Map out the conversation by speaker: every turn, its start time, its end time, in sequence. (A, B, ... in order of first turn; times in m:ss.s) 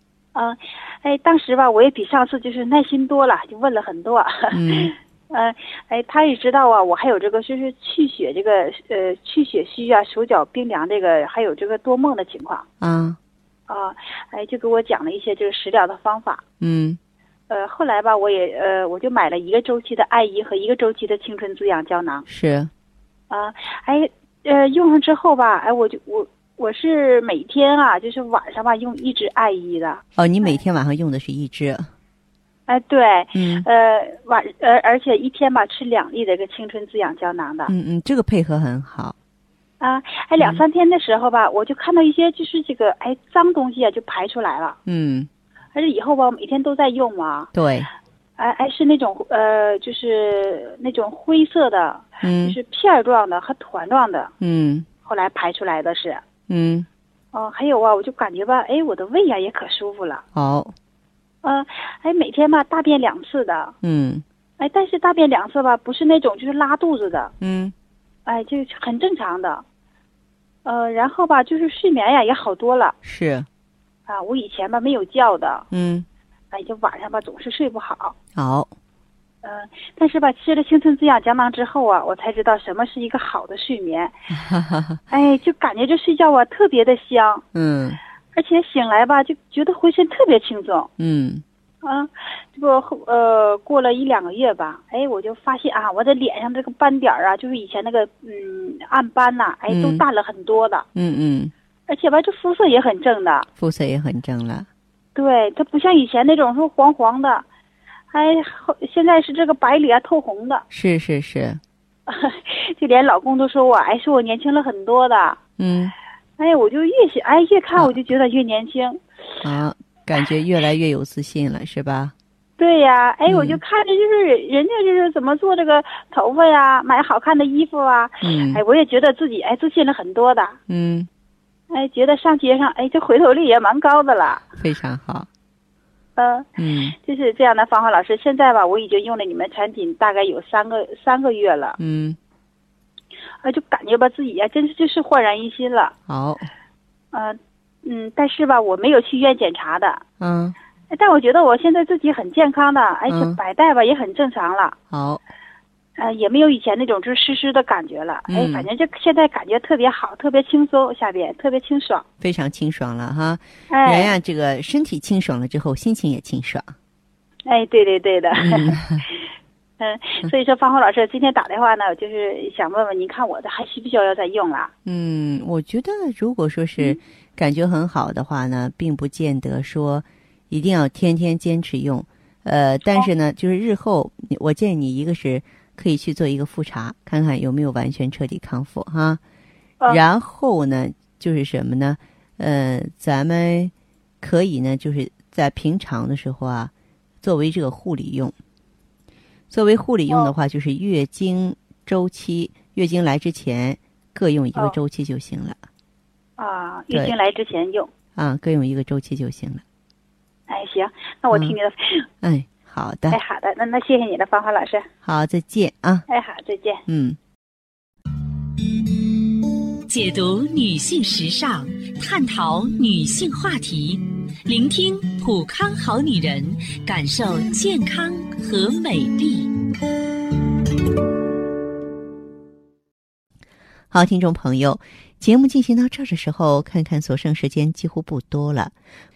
0:00.3-0:12.7 A
0:04.5-0:05.0 B
0:12.8-0:13.2 B
0:13.7-0:16.4 A
0:16.6-0:17.0 B
0:17.5-0:22.3 A
0:22.3-0:22.7 B
0:23.3-0:30.6 A
0:30.2-0:31.9 B
0:32.7-0:37.7 A
0:33.4-0:33.7 B
0:37.7-0:39.2 B
0:39.8-0:44.8 A
0:44.9-0:45.3 B
0:45.7-0:47.5 A
0:47.5-0:47.9 B
0:48.4-0:54.3 A
0:52.2-0:52.6 B
0:54.4-0:54.9 B
0:55.0-0:56.2 A
0:56.5-0:56.9 B
0:57.3-1:00.2 A
1:00.3-1:00.8 B
1:01.4-1:03.8 A
1:03.8-1:04.2 B
1:04.6-1:07.3 A
1:07.4-1:07.7 B
1:08.3-1:09.6 A
1:10.6-1:13.0 A
1:13.0-1:13.5 B
1:14.1-1:15.7 A
1:15.7-1:16.1 B
1:16.5-1:18.2 A
1:18.4-1:18.7 B
1:19.4-1:24.1 A
1:24.4-1:25.0 B
1:25.1-1:27.4 A
1:27.5-1:28.0 B
1:28.3-1:30.9 A
1:31.0-1:31.4 B
1:31.8-1:40.9 A
1:39.7-1:40.0 B
1:41.0-1:41.5 B
1:41.9-1:43.5 A
1:43.6-1:44.7 B
1:45.2-1:47.4 A
1:48.1-1:50.6 A
1:50.7-1:51.6 B
1:52.1-1:55.4 A
1:55.6-1:55.9 B
1:56.4-1:59.0 A
1:59.4-2:02.2 B
2:02.6-2:10.6 A
2:03.3-2:03.6 B
2:08.2-2:08.6 B
2:10.7-2:11.1 B
2:11.7-2:14.4 A
2:14.6-2:15.3 B
2:16.2-2:21.8 A
2:16.6-2:17.0 B
2:21.8-2:22.2 B
2:23.4-2:26.0 A
2:26.1-2:26.5 B
2:27.1-2:30.0 A
2:30.2-2:30.6 B
2:30.9-2:34.8 A
2:33.1-2:33.4 B
2:34.9-2:35.2 B
2:36.0-2:42.0 A
2:38.3-2:38.7 B
2:42.2-2:46.7 B
2:43.7-2:44.2 A
2:47.5-2:49.2 A
2:48.4-2:48.8 B
2:49.8-2:54.7 A
2:54.8-3:09.2 B
3:09.8-3:18.4 B
3:19.5-3:25.6 B
3:26.4-3:27.9 A
3:26.9-3:27.2 B
3:28.2-3:29.6 B
3:30.5-3:32.1 A
3:31.3-3:31.6 B
3:32.2-3:33.2 B
3:33.1-3:34.9 A
3:35.0-3:36.1 B
3:36.1-3:36.8 A
3:36.9-3:37.2 B
3:39.9-3:49.5 C
3:53.9-3:58.7 B